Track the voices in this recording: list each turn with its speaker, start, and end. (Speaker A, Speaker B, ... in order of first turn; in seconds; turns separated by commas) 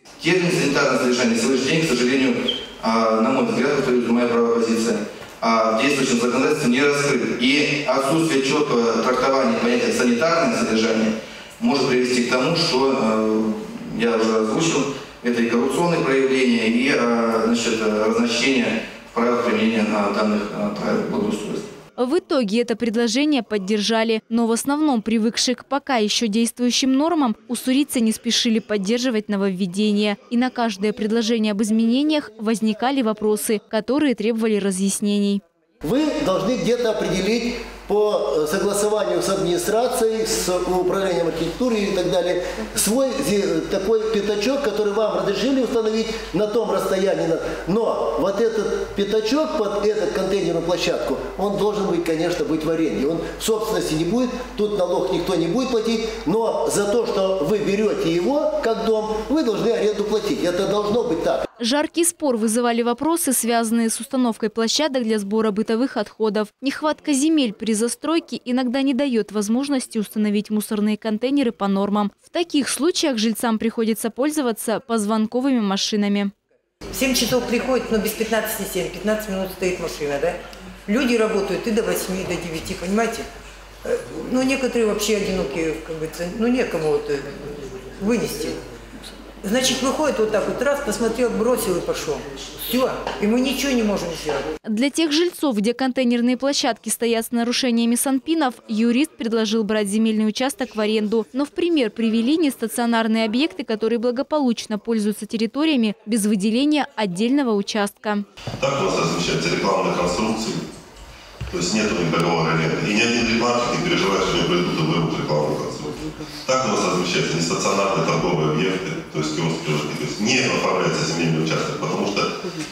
Speaker A: 0.2-21.7, Speaker B: 22.0-35.4, Speaker C: 35.8-61.5, Speaker B: 61.6-76.3, Speaker D: 76.9-83.3, Speaker D: 83.8-88.6, Speaker D: 89.4-94.5, Speaker B: 94.6-108.2, Speaker E: 108.6-110.6, Speaker E: 111.5-122.3